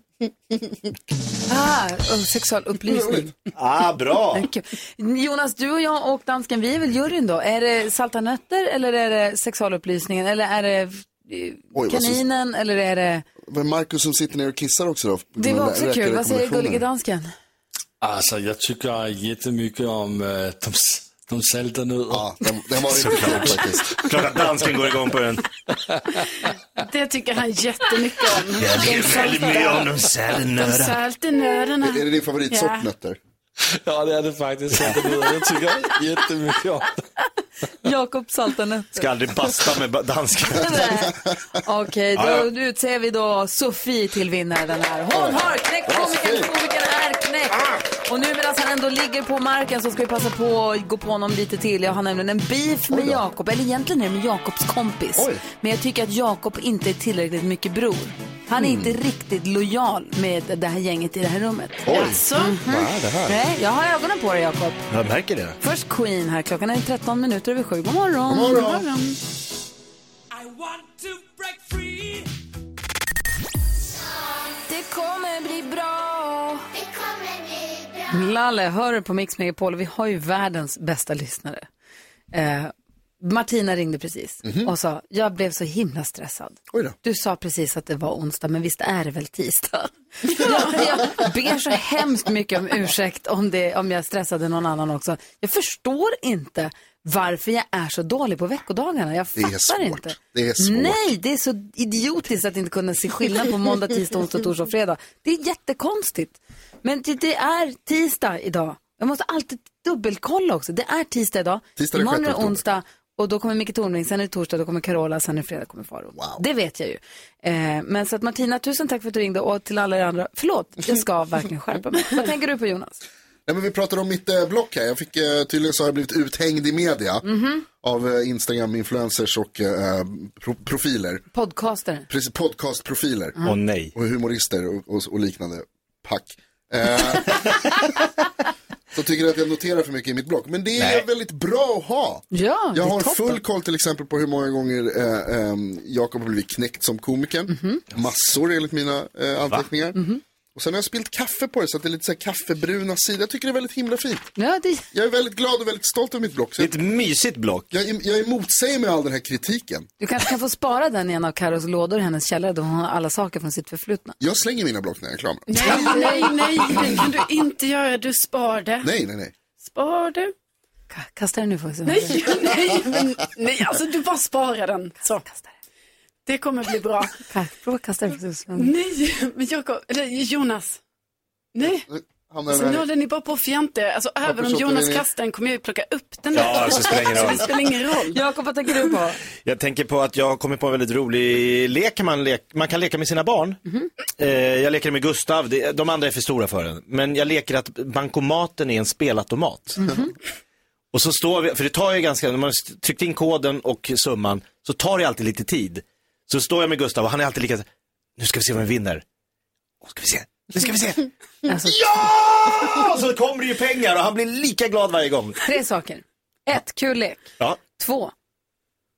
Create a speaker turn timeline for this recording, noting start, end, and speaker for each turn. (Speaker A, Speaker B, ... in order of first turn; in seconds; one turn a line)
Speaker A: 1.5-3.3
Speaker B: 2.9-3.3
Speaker C: 3.5-4.5
Speaker A: 4.3-13.3
Speaker B: 11.7-12.2
Speaker B: 13.5-16.9
Speaker A: 15.4-17.3
Speaker D: 18.0-22.4
Speaker B: 22.1-23.9
Speaker C: 22.9-25.5
Speaker E: 26.8-32.9
Speaker C: 28.6-31.0
Speaker B: 31.8-33.2
Speaker D: 33.9-37.0
Speaker A: 37.8-39.1
Speaker C: 39.0-41.0
Speaker A: 40.5-64.8
Speaker C: 42.1-42.5
Speaker B: 45.1-46.5
Speaker B: 52.9-53.2
Speaker B: 55.2-55.4
Speaker B: 58.6-58.9
Speaker B: 61.9-63.4
Speaker E: 61.9-62.6
Speaker C: 64.9-65.6
Speaker A: 65.6-69.1
Speaker B: 68.3-68.9
Speaker A: 74.7-76.6
Speaker A: 78.1-81.7
Speaker A: 82.3-123.0
Speaker B: 84.5-84.7
Speaker B: 99.4-101.1
Speaker B: 111.8-112.6
Speaker B: 116.2-116.4
Speaker B: 123.5-131.2
Speaker A: 127.2-127.6
Speaker A: 131.3-132.1
Speaker B: 132.1-133.4
Speaker C: 133.4-133.9
Speaker B: 133.9-137.8
Speaker B: 138.9-150.0
Speaker C: 140.8-141.0
Speaker A: 142.3-143.4
Speaker A: 147.5-147.8
Speaker A: 149.9-150.2
Speaker B: 150.6-154.3
Speaker A: 154.4-154.9
Speaker B: 154.9-156.7
Speaker C: 156.6-157.7
Speaker B: 157.7-159.9
Speaker A: 160.0-164.2
Speaker B: 164.2-167.1
Speaker E: 165.5-168.9
Speaker A: 165.6-166.5
Speaker B: 168.8-169.3
Speaker E: 169.6-170.3
Speaker A: 170.9-172.2
Speaker E: 171.8-175.2
Speaker E: 176.3-177.2
Speaker A: 177.3-178.7
Speaker E: 178.6-180.8
Speaker E: 181.6-181.9
Speaker B: 181.9-182.8
Speaker E: 182.5-188.2
Speaker B: 184.2-185.1
Speaker C: 186.3-187.5
Speaker A: 188.1-189.2
Speaker C: 189.4-193.6
Speaker C: 194.2-199.9
Speaker A: 199.8-200.1
Speaker C: 200.9-207.7
Speaker C: 208.2-209.0
Speaker C: 209.8-211.1
Speaker A: 211.5-212.1
Speaker C: 211.7-215.4
Speaker A: 215.4-218.1